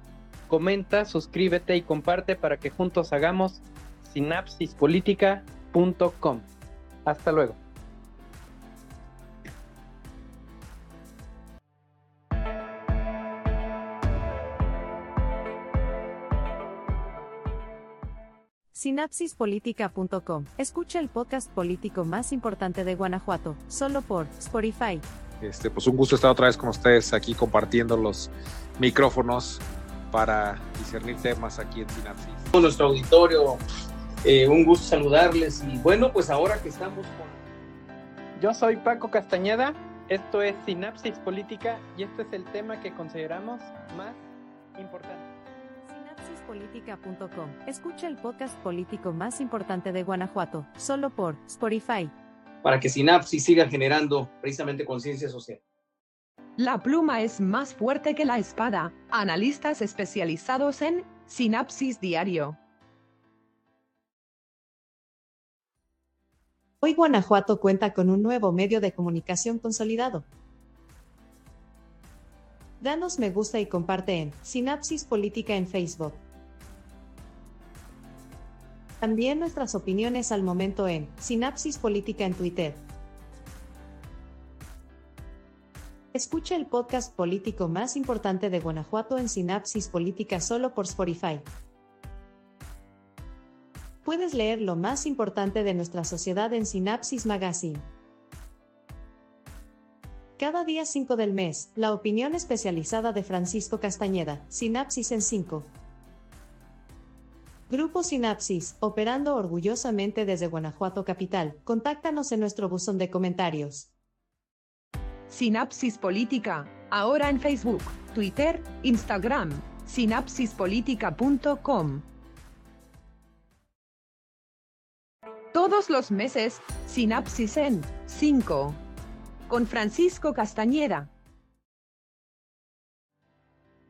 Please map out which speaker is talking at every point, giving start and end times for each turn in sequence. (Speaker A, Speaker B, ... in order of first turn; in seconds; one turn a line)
Speaker A: 0.5-6.5
Speaker A: 7.1-7.6
Speaker B: 18.7-25.1
Speaker C: 25.4-32.5
Speaker D: 32.5-33.6
Speaker D: 34.2-37.4
Speaker A: 38.4-44.2
Speaker A: 44.8-45.3
Speaker B: 45.9-52.1
Speaker D: 52.6-55.6
Speaker E: 56.6-62.6
Speaker B: 66.8-70.3
Speaker B: 72.8-76.2
Speaker B: 79.0-82.8
Speaker B: 86.1-91.5
Speaker B: 94.0-97.9
Speaker B: 100.4-105.7
Speaker B: 107.7-113.9
Speaker E: 115.3-122.0
Speaker E: 125.5-128.8
Speaker E: 129.5-131.1